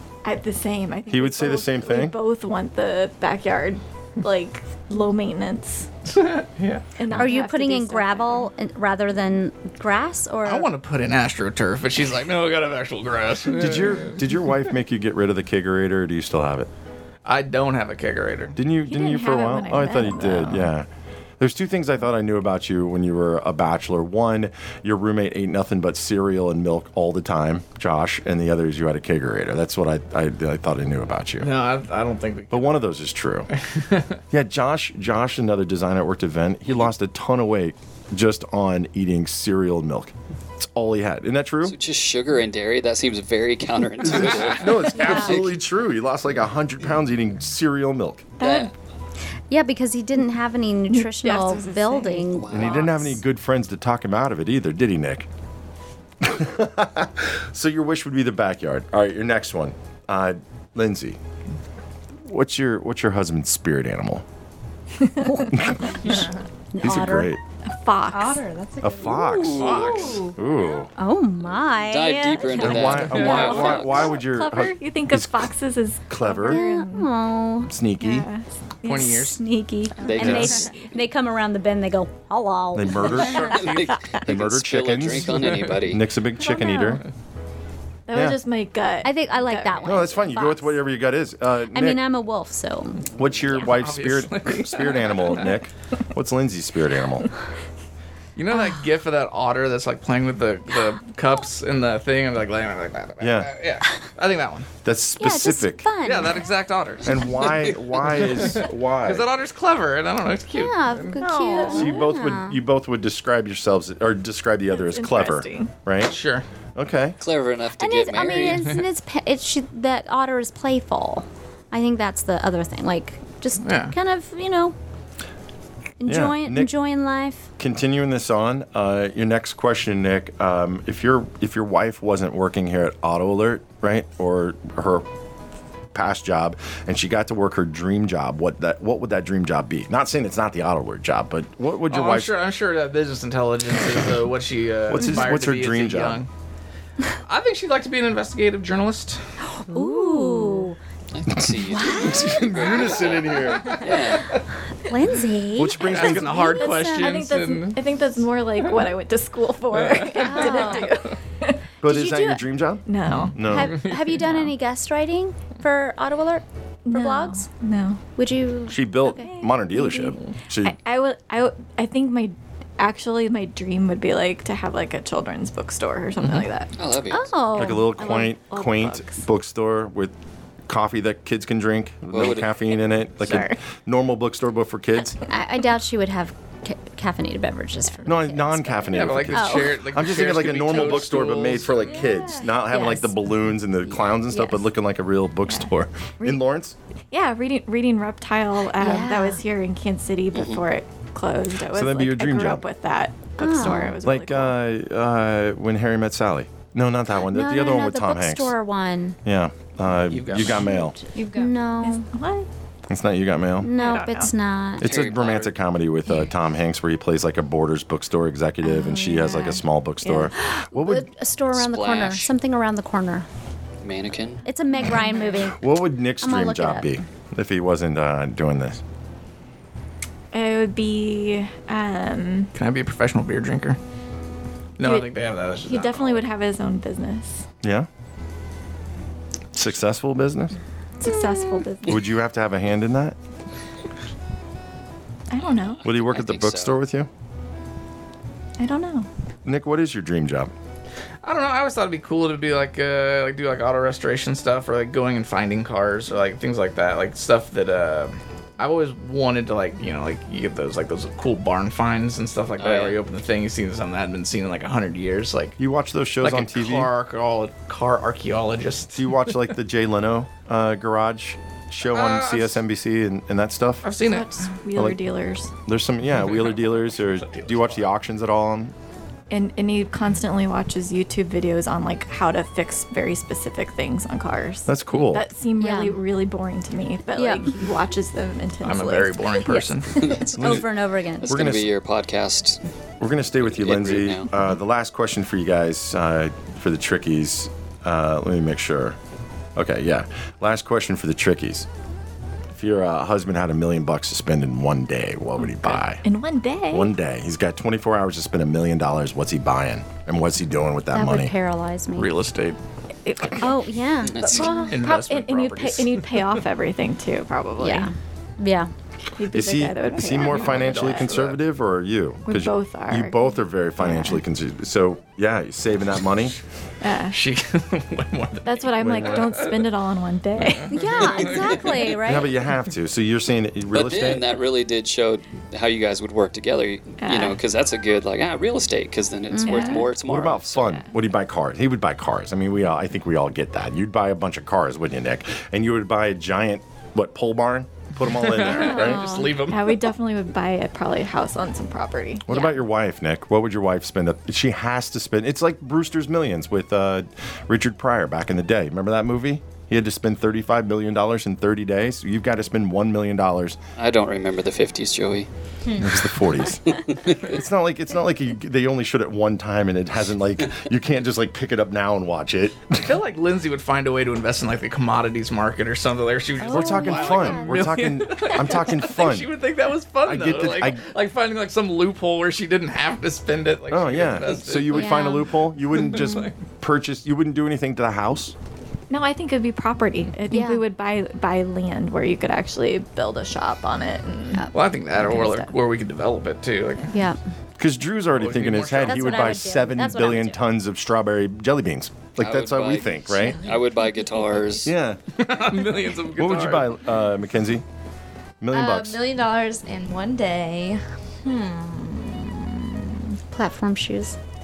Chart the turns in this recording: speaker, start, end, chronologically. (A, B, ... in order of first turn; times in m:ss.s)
0:00.2-0:05.9 A
0:01.1-0:02.2 B
0:06.1-0:06.8 C
0:07.0-0:08.5 A
0:07.1-0:10.7 D
0:10.4-0:14.2 C
0:13.5-0:16.7 B
0:17.2-0:18.6 C
0:18.6-0:20.9 B
0:18.9-0:20.6 A
0:21.4-0:31.5 B
0:31.4-0:32.8 C
0:32.5-0:33.5 B
0:33.7-0:34.0 C
0:34.3-0:41.8 B
0:41.6-0:45.5 E
0:44.0-0:48.4 B
0:48.4-0:48.7 A
0:48.4-0:48.7 E
0:49.5-0:53.1 D
0:50.9-0:52.9 A
0:52.3-0:53.0 E
0:52.5-0:55.3 B
0:56.2-1:01.2 B
1:02.2-1:04.2 B
1:05.2-1:07.3 D
1:05.5-1:06.3 B
1:06.8-1:07.4 B
1:07.6-1:08.5 A
1:08.1-1:10.4 F
1:08.8-1:10.9 B
1:09.4-1:10.2 E
1:09.5-1:10.2 C
1:11.0-1:13.2 D
1:11.6-1:14.2 E
1:12.5-1:17.1 A
1:12.6-1:15.5 B
1:16.1-1:16.6 B
1:16.5-1:17.7 D
1:17.6-1:18.3 B
1:18.0-1:19.3 A
1:18.8-1:19.4 C
1:18.9-1:23.2 D
1:20.0-1:20.9 A
1:20.0-1:20.7 E
1:20.2-1:20.5 B
1:22.7-1:27.0 B
1:23.1-1:24.0 C
1:23.3-1:26.0 E
1:26.4-1:27.0 A
1:28.1-1:30.1 A
1:28.1-1:28.4 B
1:29.0-1:30.8 D
1:29.8-1:32.0 B
1:31.7-1:33.1 D
1:33.1-1:37.3 B
1:33.5-1:35.5 C
1:38.4-1:44.7 C
1:43.2-1:43.5 B
1:44.8-1:45.9 B
1:45.2-1:46.4 D
1:46.0-1:51.2 C
1:47.0-1:49.3 B
1:50.5-1:52.6 D
1:51.2-1:52.0 A
1:51.7-1:56.2 B
1:54.8-1:55.7 A
1:56.0-1:56.4 C
1:56.8-1:57.2 B
1:57.2-1:58.8 E
1:57.8-2:04.8 D
2:03.6-2:03.9 C
2:06.0-2:07.5 D
2:06.1-2:06.7 B
2:07.6-2:15.0 B
2:15.9-2:22.4 B
2:21.9-2:26.3 C
2:24.9-2:26.2 B
2:27.2-2:29.2 C
2:29.6-2:30.8 D
2:29.7-2:30.7 A
2:31.1-2:34.4 E
2:31.3-2:34.0 B
2:31.7-2:32.3 D
2:33.7-2:34.0 C
2:34.9-2:37.1 D
2:35.6-2:36.6 B
2:35.8-2:37.8 C
2:36.4-2:41.6 A
2:39.7-2:40.9 C
2:40.2-2:40.9 D
2:41.8-2:43.8 B
2:41.8-2:42.4 D
2:42.8-2:44.5 A
2:43.4-2:47.5 D
2:46.8-2:48.0 A
2:48.2-2:49.3 D
2:48.7-2:50.8 B
2:49.0-2:56.7 A
2:56.2-2:56.5 C
2:56.8-2:57.4 E
2:57.1-2:57.9 D
2:57.6-3:00.1 B
2:57.6-2:59.2 A
3:00.7-3:05.2 B
3:02.1-3:02.6 E
3:03.2-3:03.6 A
3:05.3-3:09.7 D
3:08.0-3:16.7 B
3:08.9-3:11.9 C
3:11.9-3:12.5 A
3:12.7-3:13.1 D
3:14.1-3:14.6 D
3:17.1-3:24.6 A
3:18.8-3:19.4 D
3:20.3-3:20.6 E
3:21.7-3:22.6 B
3:23.4-3:24.0 D
3:24.0-3:28.5 B
3:27.3-3:29.2 D
3:29.2-3:31.0 B
3:30.1-3:30.7 C
3:31.1-3:31.5 F
3:31.2-3:32.1 D
3:31.8-3:32.5 A
3:32.9-3:33.7 B
3:33.6-3:34.9 D
3:33.7-3:34.3 A
3:34.8-3:41.1 B
3:34.8-3:35.5 E
3:38.7-3:39.6 A
3:40.0-3:43.2 D
3:41.5-3:42.3 E
3:43.8-3:44.4 E
3:44.4-3:45.6 D
3:45.0-3:45.3 A
3:45.4-3:48.8 B
3:46.2-3:47.0 D
3:50.3-3:52.5 A
3:52.5-3:53.8 C
3:54.8-3:56.2 C
3:54.8-3:55.1 A
3:55.6-3:57.4 A
3:57.6-3:57.9 B
3:59.5-4:00.6 B
4:01.0-4:02.0 A
4:01.0-4:01.6 D
4:01.8-4:03.2 B
4:05.3-4:05.8 A
4:05.4-4:06.8 E
4:05.8-4:07.1 B
4:08.6-4:09.1 A
4:09.4-4:10.5 B
4:11.2-4:25.6 C
4:22.6-4:23.0 E
4:25.6-4:26.9 B
4:26.2-4:29.3 C
4:28.9-4:33.9 B
4:31.8-4:32.6 C
4:33.8-4:34.6 C
4:34.0-4:35.5 A
4:35.6-4:38.7 B
4:36.2-4:37.9 C
4:39.3-4:49.5 A
4:44.6-4:45.3 B
4:45.6-4:46.0 D
4:47.2-4:47.5 D
4:48.6-4:50.0 C
4:49.5-4:51.3 D
4:50.0-4:52.6 E
4:50.4-4:50.6 B
4:51.2-4:51.7 B
4:53.0-4:59.0 B
4:53.4-4:54.3 E
4:59.6-5:01.6 B
5:02.5-5:06.0 B
5:06.0-5:06.9 A
5:06.7-5:11.3 B
5:10.9-5:12.1 D
5:11.9-5:12.6 C
5:13.0-5:13.7 A
5:13.4-5:14.7 D
5:14.0-5:14.7 E
5:14.2-5:17.9 A
5:14.7-5:16.3 C
5:17.6-5:18.7 D
5:19.2-5:21.1 A
5:19.3-5:26.4 B
5:20.1-5:21.4 C
5:22.2-5:23.3 A
5:26.8-5:27.2 A
5:27.1-5:29.7 C
5:28.4-5:31.0 A
5:28.8-5:29.2 B
5:30.4-5:31.8 C
5:30.7-5:32.3 D
5:32.0-5:34.4 B
5:33.7-5:40.8 E
5:37.0-5:37.4 A
5:39.3-5:39.9 D
5:39.4-5:39.9 A
5:40.0-5:49.1 B
5:48.0-5:49.9 C
5:48.5-5:49.4 D
5:48.8-5:52.4 A
5:52.2-6:03.6 B
6:03.8-6:05.3 E
6:05.6-6:06.0 F
6:05.8-6:12.9 B
6:06.6-6:07.4 E
6:12.8-6:24.9 C
6:16.4-6:17.7 D
6:16.5-6:19.3 B
6:20.0-6:20.8 B
6:23.7-6:28.3 B
6:24.7-6:25.3 D
6:25.8-6:26.3 C
6:28.9-6:35.5 A
6:30.3-6:30.6 D
6:34.5-6:36.9 C
6:36.9-6:37.2 D
6:37.6-6:43.4 B
6:38.2-6:39.3 C
6:38.8-6:40.4 D
6:42.2-6:44.7 E
6:44.6-6:45.0 B
6:45.2-6:46.8 C
6:46.1-6:47.6 B
6:48.4-6:49.0 B
6:48.5-6:53.0 F
6:53.3-6:54.2 D